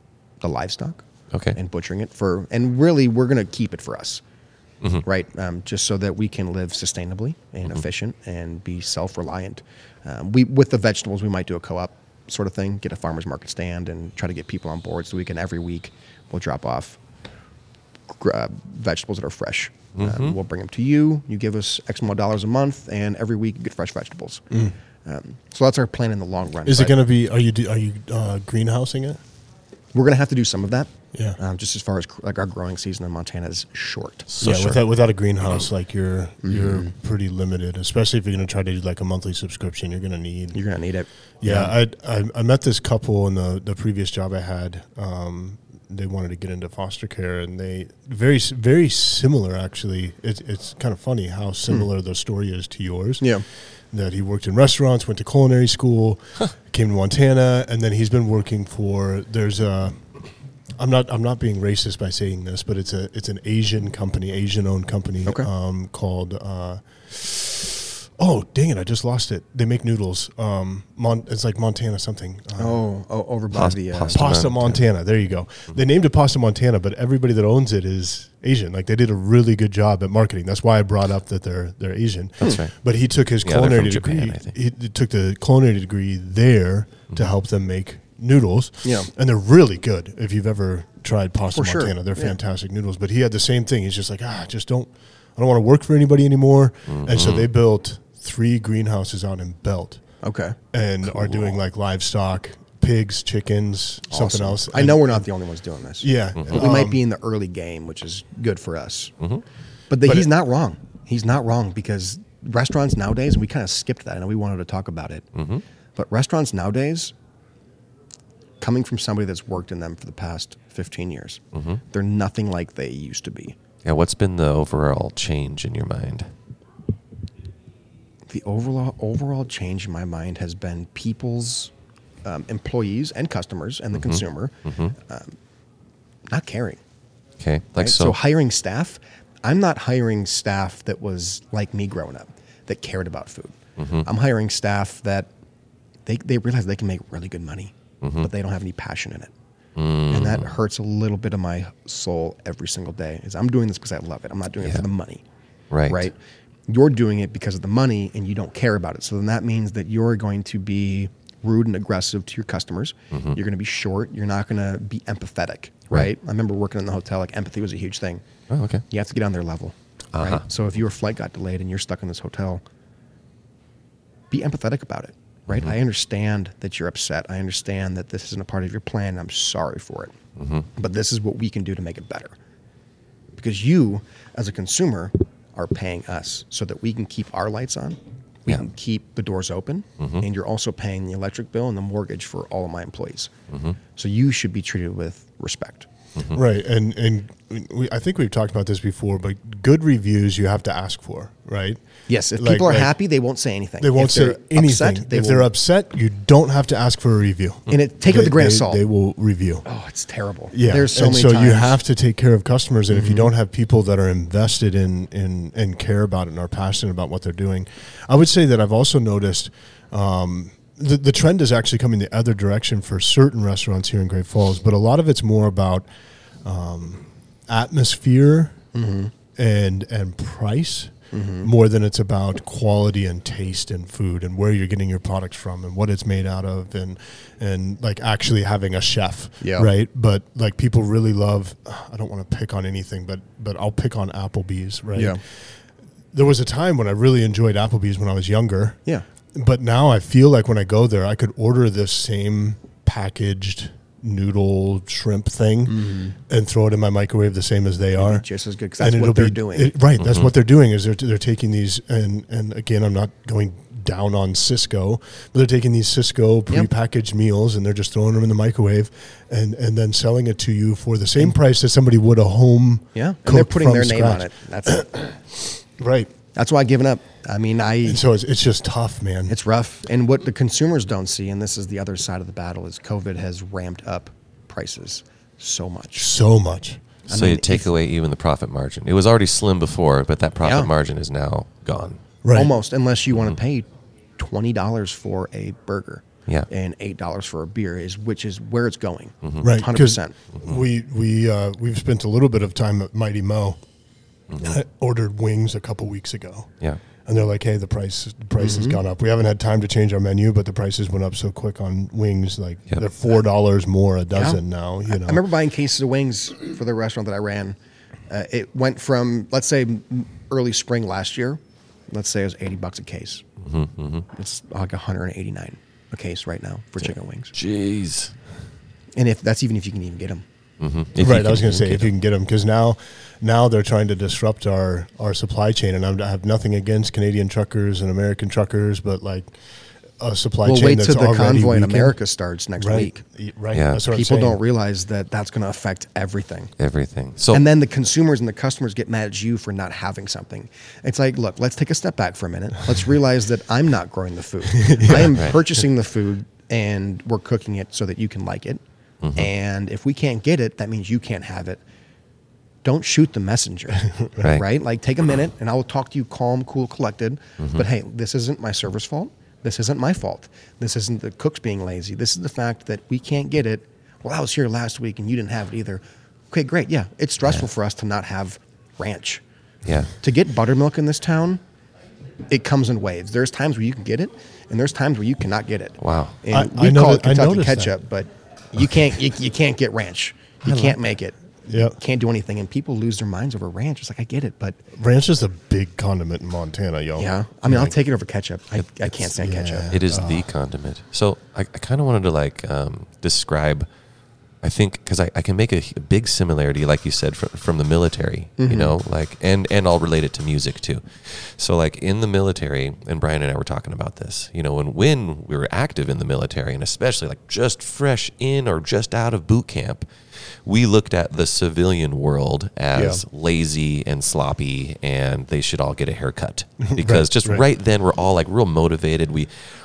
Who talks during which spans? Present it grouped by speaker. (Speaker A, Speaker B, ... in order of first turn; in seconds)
Speaker A: 0.4-4.2, 5.0-17.0, 18.1-24.5, 25.1-27.0, 29.9-34.8, 36.4-36.9, 40.5-41.7, 72.6-74.2, 88.8-89.1, 91.5-92.4, 100.2-100.6, 101.2-101.5, 104.1-109.1, 109.9-115.3, 116.0-117.1, 118.6-123.6, 128.3-131.7, 132.2-135.3, 136.3-136.8, 137.8-145.3, 146.1-149.3, 150.1-155.2, 155.9-156.2, 156.7-168.2, 168.9-172.6, 174.3-180.2, 180.8-182.3, 183.3-193.3, 193.9-195.9, 202.1-205.5, 207.7-208.8, 209.7-211.8, 212.9-213.3, 228.7-229.1, 231.1-231.5, 239.4-239.7, 244.9-245.2, 255.7-256.2, 258.0-259.8, 272.9-275.0, 276.3-278.0, 279.3-286.1, 287.1-287.7, 290.4-290.7, 292.3-300.1, 308.4-308.8, 314.1-317.6, 318.1-323.2, 324.1-327.3, 329.0-330.2, 340.4-343.0, 343.9-346.5, 347.3-358.6, 359.1-361.6, 362.6-379.2, 380.0-381.4, 382.3-394.6, 397.0-399.7, 408.4-408.8, 422.8-423.0
Speaker B: 1.3-1.6, 20.0-20.4, 73.5-74.8, 82.4-82.7, 83.4-84.5, 96.9-97.5, 106.4-106.7, 115.3-115.6, 121.5-121.8, 123.8-126.3, 133.9-134.9, 137.4-138.2, 143.8-144.1, 148.0-148.3, 149.8-150.6, 155.7-156.1, 163.1-163.4, 168.5-168.8, 170.1-170.4, 175.5-175.8, 180.4-180.7, 190.0-190.3, 193.5-193.8, 196.2-196.4, 260.0-260.3, 287.1-292.0, 299.2-299.5, 304.3-304.6, 323.4-324.1, 327.3-328.1, 330.6-331.9, 343.5-343.8, 346.6-347.5, 355.1-355.4, 359.0-359.3, 364.2-364.5, 379.6-379.9, 385.8-386.2, 399.7-403.7, 404.4-419.9, 420.4-429.3
Speaker C: 24.5-24.8, 26.7-29.2, 34.4-40.6, 41.4-72.8, 74.1-100.0, 100.7-105.3, 106.0-107.0, 196.3-201.8, 202.4-203.0, 203.8-209.6, 210.5-225.9, 226.4-228.6, 229.4-245.4, 246.1-248.8, 249.3-258.2, 258.8-276.1, 277.9-279.4, 286.0-286.8, 292.2-292.5, 299.4-303.6, 304.4-306.5, 307.1-315.2, 331.0-339.4, 340.0-342.0, 342.6-344.4, 354.6-355.1, 363.9-364.3, 386.3-387.8, 390.4-390.8, 391.5-391.8, 394.8-397.1, 399.1-400.3, 426.6-427.5